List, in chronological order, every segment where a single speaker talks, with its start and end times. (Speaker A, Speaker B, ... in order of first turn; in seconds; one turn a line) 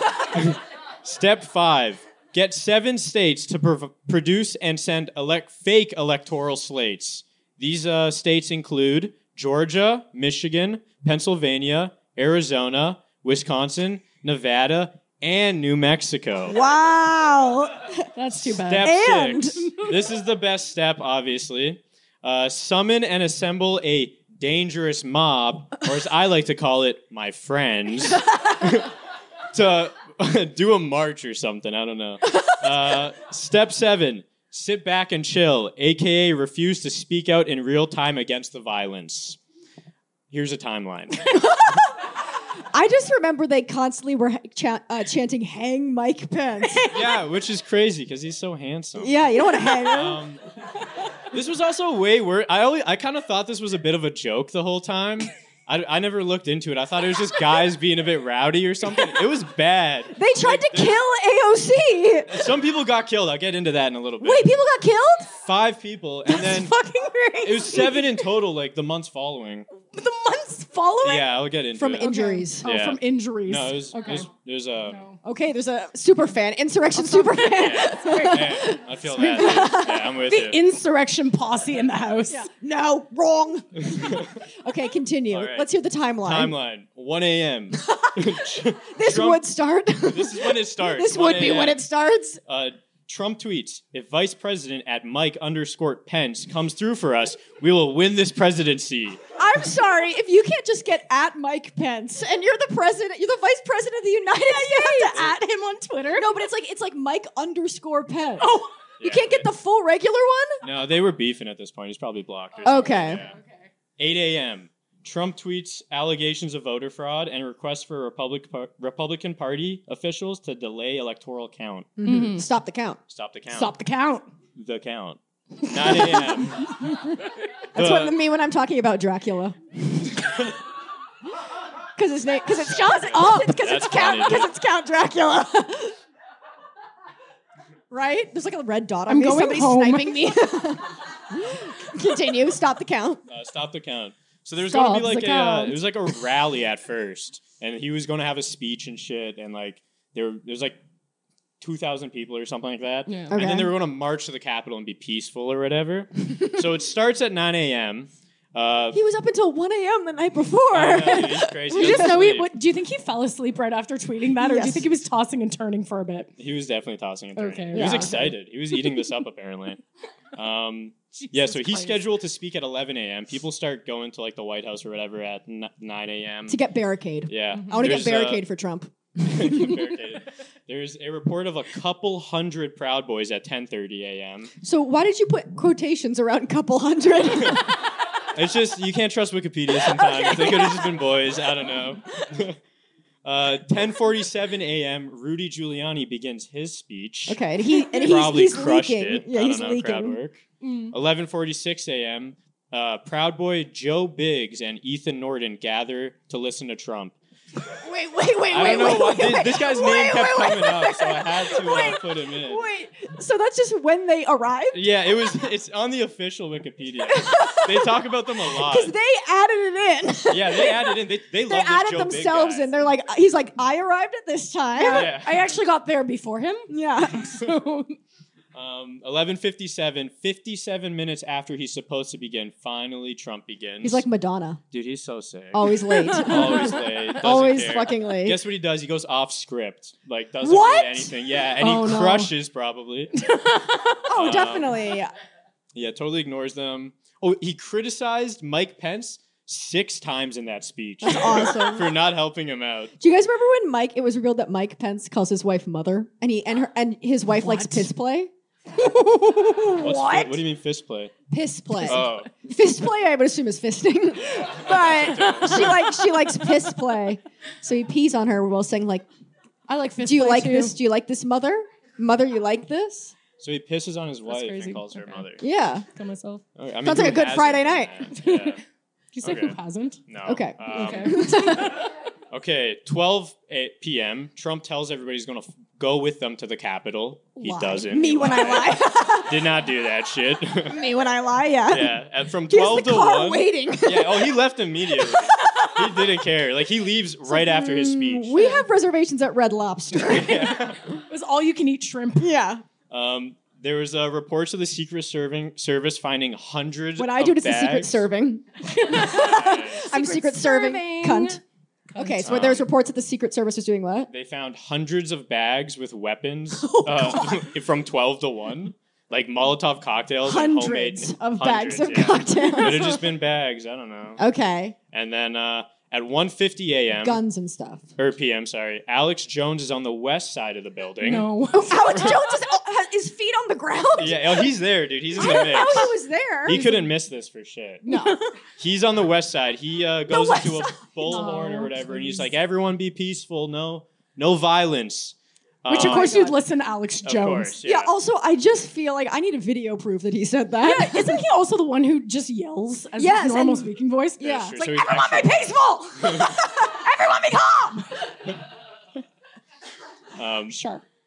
Speaker A: 0.3-16.6
Speaker B: 16.5-18.0
Speaker C: 18.1-18.9
Speaker A: 18.4-28.9
Speaker B: 18.8-19.7
Speaker A: 29.5-39.4
Speaker A: 40.3-41.3
Speaker B: 41.2-42.0
Speaker B: 42.7-47.0
Speaker A: 46.9-49.2
Speaker B: 49.0-50.2
Speaker A: 49.8-50.4
Speaker A: 51.3-61.0
Speaker B: 60.1-62.4
Speaker A: 62.3-64.5
Speaker B: 64.2-65.3
Speaker A: 65.4-66.7
Speaker A: 67.4-69.7
Speaker C: 69.9-71.2
Speaker A: 71.0-75.0
Speaker B: 71.7-72.7
Speaker C: 72.1-74.3
Speaker C: 74.8-75.2
Speaker B: 75.2-80.1
Speaker C: 77.0-78.6
Speaker A: 77.5-80.6
Speaker C: 79.1-82.5
Speaker B: 82.3-86.5
Speaker A: 83.8-84.3
Speaker A: 85.3-85.7
Speaker A: 86.2-89.5
Speaker B: 87.7-88.3
Speaker B: 88.9-92.4
Speaker A: 90.1-91.8
Speaker A: 92.5-99.2
Speaker B: 99.4-105.4
Speaker C: 104.5-106.3
Speaker B: 106.1-110.6
Speaker C: 108.4-108.7
Speaker A: 109.0-109.5
Speaker A: 110.6-113.3
Speaker C: 112.5-113.6
Speaker B: 112.6-113.3
Speaker A: 114.0-122.0
Speaker B: 122.0-123.0
Speaker C: 122.0-122.5
Speaker A: 123.1-123.8
Speaker C: 123.5-124.2
Speaker A: 124.5-125.2
Speaker A: 125.7-126.8
Speaker C: 125.9-126.3
Speaker B: 127.7-129.7
Speaker A: 127.8-128.2
Speaker B: 132.0-135.9
Speaker A: 132.6-134.5
Speaker B: 137.9-143.2
Speaker C: 139.1-140.4
Speaker A: 143.3-150.8
Speaker C: 144.7-145.7
Speaker B: 144.8-145.0
Speaker A: 151.6-159.0
Speaker C: 153.1-153.4
Speaker B: 153.3-153.7
Speaker B: 158.9-162.3
Speaker A: 160.7-162.5
Speaker C: 161.7-166.3
Speaker B: 164.3-164.9
Speaker A: 166.4-169.8
Speaker C: 167.3-168.2
Speaker B: 167.7-168.3
Speaker A: 170.3-176.6
Speaker C: 171.2-172.0
Speaker B: 176.5-178.9
Speaker A: 177.3-178.4
Speaker C: 177.6-177.9
Speaker A: 179.2-184.5
Speaker B: 184.6-187.8
Speaker A: 188.3-192.6
Speaker B: 189.8-191.0
Speaker A: 193.2-207.1
Speaker B: 197.3-200.2
Speaker C: 200.6-200.9
Speaker B: 207.8-214.9
Speaker A: 208.5-212.6
Speaker A: 214.7-218.9
Speaker B: 217.1-225.2
Speaker A: 220.3-222.8
Speaker C: 224.8-227.9
Speaker A: 224.9-225.5
Speaker B: 226.7-227.3
Speaker A: 228.5-234.0
Speaker B: 233.8-234.6
Speaker A: 234.7-235.7
Speaker B: 235.5-238.4
Speaker C: 235.9-236.8
Speaker A: 236.2-243.1
Speaker B: 240.4-241.1
Speaker C: 241.6-242.3
Speaker C: 243.1-244.0
Speaker B: 244.1-245.1
Speaker A: 244.1-244.8
Speaker A: 245.7-252.9
Speaker B: 251.0-252.0
Speaker B: 253.0-258.3
Speaker C: 257.3-257.9
Speaker C: 258.8-260.4
Speaker A: 259.8-261.1
Speaker B: 261.3-269.1
Speaker C: 261.8-262.1
Speaker A: 261.9-262.3
Speaker A: 264.2-265.8
Speaker C: 265.3-265.7
Speaker C: 266.4-266.8
Speaker C: 269.7-270.8
Speaker B: 270.0-273.1
Speaker A: 273.4-275.4
Speaker C: 274.3-275.3
Speaker B: 275.4-275.8
Speaker C: 275.9-276.4
Speaker A: 276.6-278.6
Speaker B: 276.8-278.0
Speaker C: 278.1-278.6
Speaker C: 279.1-280.0
Speaker A: 279.2-281.6
Speaker B: 280.2-281.8
Speaker C: 280.7-281.9
Speaker A: 282.3-290.8
Speaker B: 287.4-289.4
Speaker B: 290.7-294.4
Speaker A: 291.7-298.5
Speaker B: 294.9-296.0
Speaker B: 297.2-300.7
Speaker A: 299.9-300.8
Speaker C: 301.1-302.3
Speaker B: 302.2-302.6
Speaker A: 302.9-308.1
Speaker B: 306.9-311.4
Speaker C: 308.7-311.4
Speaker A: 309.0-309.8
Speaker C: 311.9-312.3
Speaker B: 311.9-314.1
Speaker A: 312.2-312.7
Speaker A: 314.1-324.2
Speaker B: 316.6-317.5
Speaker B: 320.2-323.1
Speaker B: 324.2-324.8
Speaker A: 324.9-327.2
Speaker B: 327.0-327.9
Speaker A: 328.0-332.3
Speaker C: 331.0-332.1
Speaker B: 331.5-334.5
Speaker A: 333.9-337.8
Speaker B: 335.1-336.9
Speaker C: 337.8-338.2
Speaker B: 337.9-338.3
Speaker A: 338.6-346.2
Speaker B: 340.1-341.3
Speaker C: 341.1-342.2
Speaker C: 345.7-347.6
Speaker B: 345.7-346.4
Speaker A: 347.0-347.9
Speaker B: 347.6-351.2
Speaker C: 350.6-354.4
Speaker B: 352.9-358.0
Speaker A: 354.2-355.5
Speaker A: 360.1-360.6
Speaker C: 360.5-360.8